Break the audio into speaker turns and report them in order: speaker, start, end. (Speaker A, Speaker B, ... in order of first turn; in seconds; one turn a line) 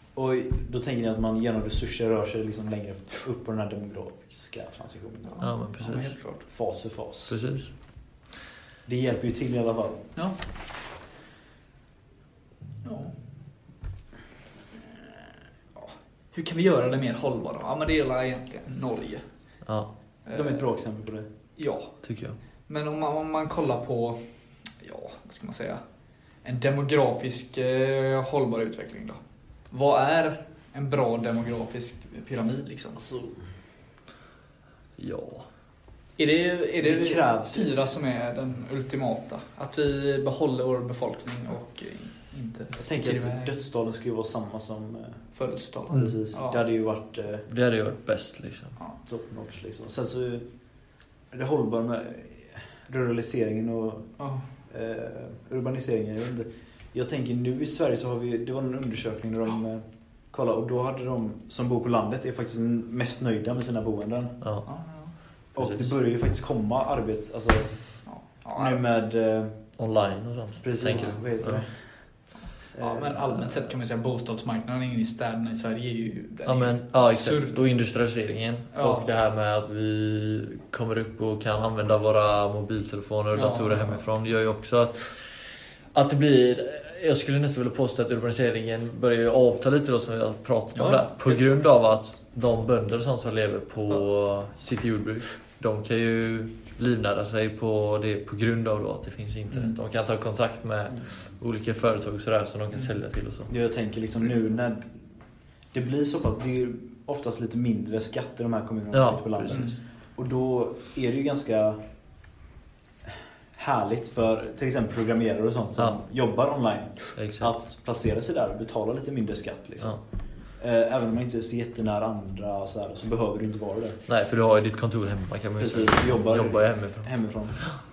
Speaker A: 0.1-5.5
Speaker B: 5.3-6.4
Speaker C: 5.4-6.1
Speaker A: 6.5-7.3
Speaker C: 7.3-7.7
Speaker A: 8.8-10.0
Speaker B: 12.8-13.1
Speaker B: 14.9-19.2
Speaker B: 20.2-20.7
Speaker A: 20.3-21.3
Speaker B: 21.6-21.9
Speaker C: 22.0-22.4
Speaker B: 22.7-24.2
Speaker B: 24.8-25.8
Speaker B: 26.4-29.2
Speaker B: 29.7-33.0
Speaker A: 33.0-33.4
Speaker C: 35.0-35.4
Speaker B: 36.2-43.5
Speaker A: 36.8-37.7
Speaker A: 42.8-45.2
Speaker B: 45.3-46.6
Speaker C: 45.9-46.2
Speaker A: 45.9-47.5
Speaker C: 47.5-48.7
Speaker A: 49.0-50.4
Speaker A: 51.3-54.1
Speaker B: 54.2-54.4
Speaker A: 54.7-64.3
Speaker C: 64.4-64.7
Speaker B: 64.7-65.1
Speaker A: 65.5-67.7
Speaker C: 65.6-65.9
Speaker B: 68.0-68.8
Speaker A: 68.5-69.5
Speaker C: 69.8-71.6
Speaker A: 70.6-71.7
Speaker A: 72.7-73.4
Speaker B: 72.8-77.6
Speaker C: 76.5-85.1
Speaker B: 78.7-79.1
Speaker B: 83.3-84.0
Speaker C: 85.9-103.5
Speaker B: 90.7-91.6
Speaker B: 99.5-99.7
Speaker A: 103.5-104.9
Speaker A: 105.7-111.8
Speaker C: 108.9-109.8
Speaker B: 109.5-109.8
Speaker A: 113.5-119.9
Speaker C: 117.2-117.6
Speaker A: 120.6-124.0
Speaker C: 124.1-127.1
Speaker A: 125.6-127.6